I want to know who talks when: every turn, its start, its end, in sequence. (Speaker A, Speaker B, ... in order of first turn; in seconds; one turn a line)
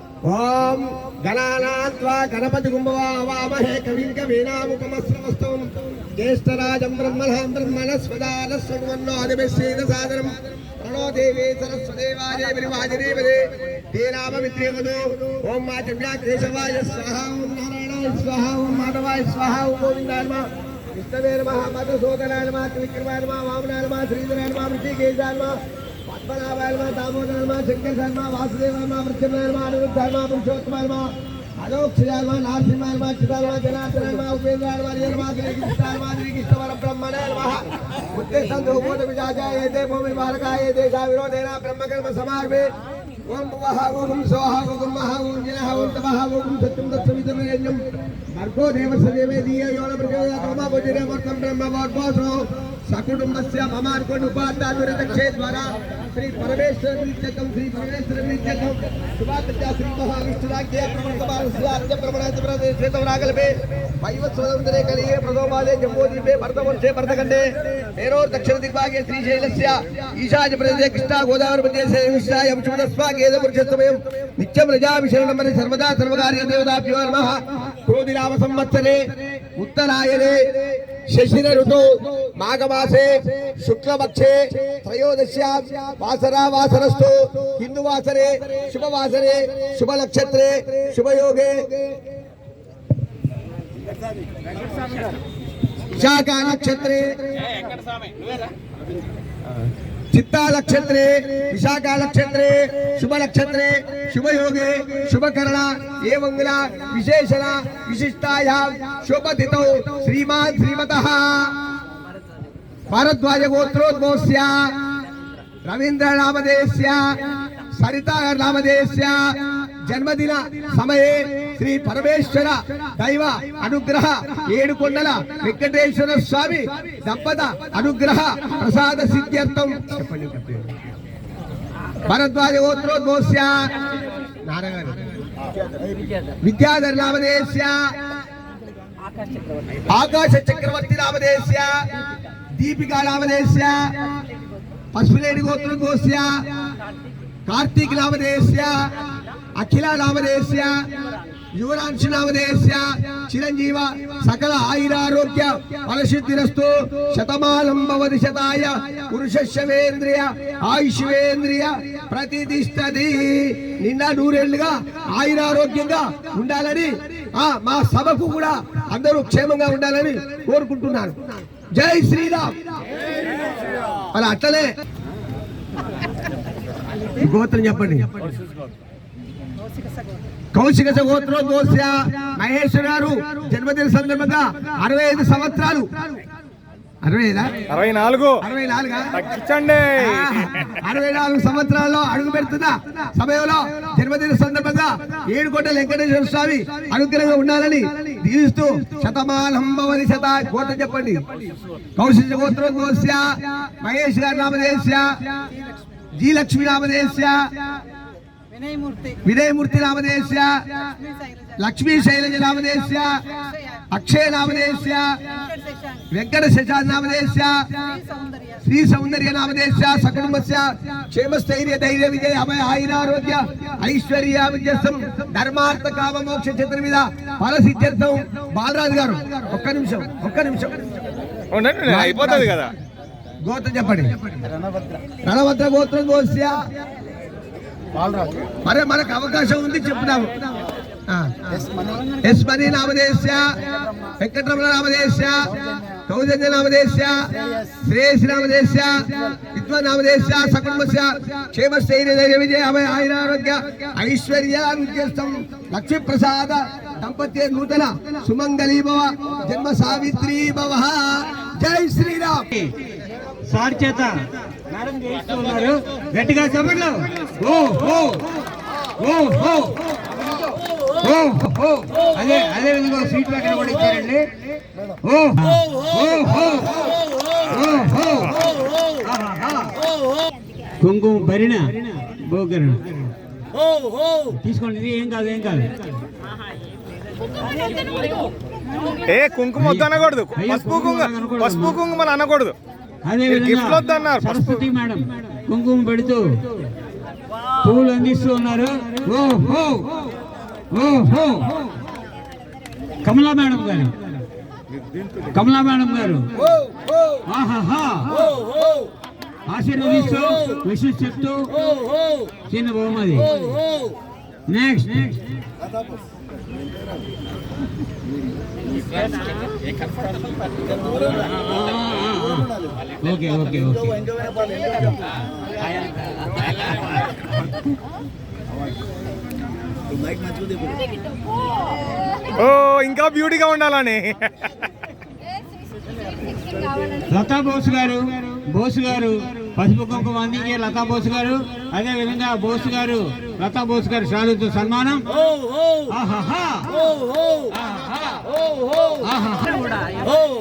Speaker A: 0.2-42.7
Speaker A: 43.2-79.0
Speaker A: 79.5-91.8
Speaker A: 95.9-97.2
Speaker A: 100.1-111.5
Speaker A: 112.9-114.7
Speaker A: 115.6-117.2
Speaker A: 117.8-130.7
Speaker A: 132.0-133.7
Speaker A: 134.4-135.1
Speaker A: 136.4-137.9
Speaker A: 139.9-141.8
Speaker A: 142.6-144.2
Speaker A: 144.9-146.5
Speaker A: 147.5-148.9
Speaker A: 149.5-150.8
Speaker A: 151.5-172.7
Speaker A: 174.1-174.7
Speaker A: 177.2-178.3
Speaker A: 180.5-186.2
Speaker A: 187.0-187.6
Speaker B: 187.7-188.4
Speaker A: 188.4-189.1
Speaker B: 189.2-190.2
Speaker A: 190.0-201.2
Speaker A: 201.9-205.1
Speaker A: 206.2-207.5
Speaker A: 209.2-210.6
Speaker A: 211.6-213.2
Speaker A: 213.9-215.1
Speaker A: 216.1-217.7
Speaker A: 218.6-230.8
Speaker B: 231.5-232.7
Speaker A: 231.8-232.6
Speaker A: 233.4-234.1
Speaker A: 235.2-236.6
Speaker A: 238.6-240.4
Speaker A: 241.1-241.7
Speaker A: 242.2-243.6
Speaker A: 244.2-262.4
Speaker C: 263.5-264.1
Speaker C: 264.7-268.2
Speaker C: 269.0-269.8
Speaker C: 271.0-274.3
Speaker C: 275.0-276.8
Speaker C: 277.5-278.5
Speaker C: 279.0-279.7
Speaker C: 280.8-283.1
Speaker C: 284.3-285.7
Speaker B: 289.1-292.5
Speaker C: 289.6-291.8
Speaker C: 293.0-296.2
Speaker B: 293.3-294.6
Speaker C: 297.6-299.9
Speaker C: 300.7-301.5
Speaker C: 303.0-303.9
Speaker C: 305.3-306.2
Speaker C: 307.2-308.2
Speaker C: 309.5-311.5
Speaker C: 312.5-313.3
Speaker C: 314.5-315.2
Speaker C: 321.1-324.0
Speaker C: 326.5-326.8
Speaker B: 332.4-334.3
Speaker C: 337.1-345.0
Speaker C: 345.9-346.8
Speaker C: 347.6-348.0
Speaker C: 349.0-349.6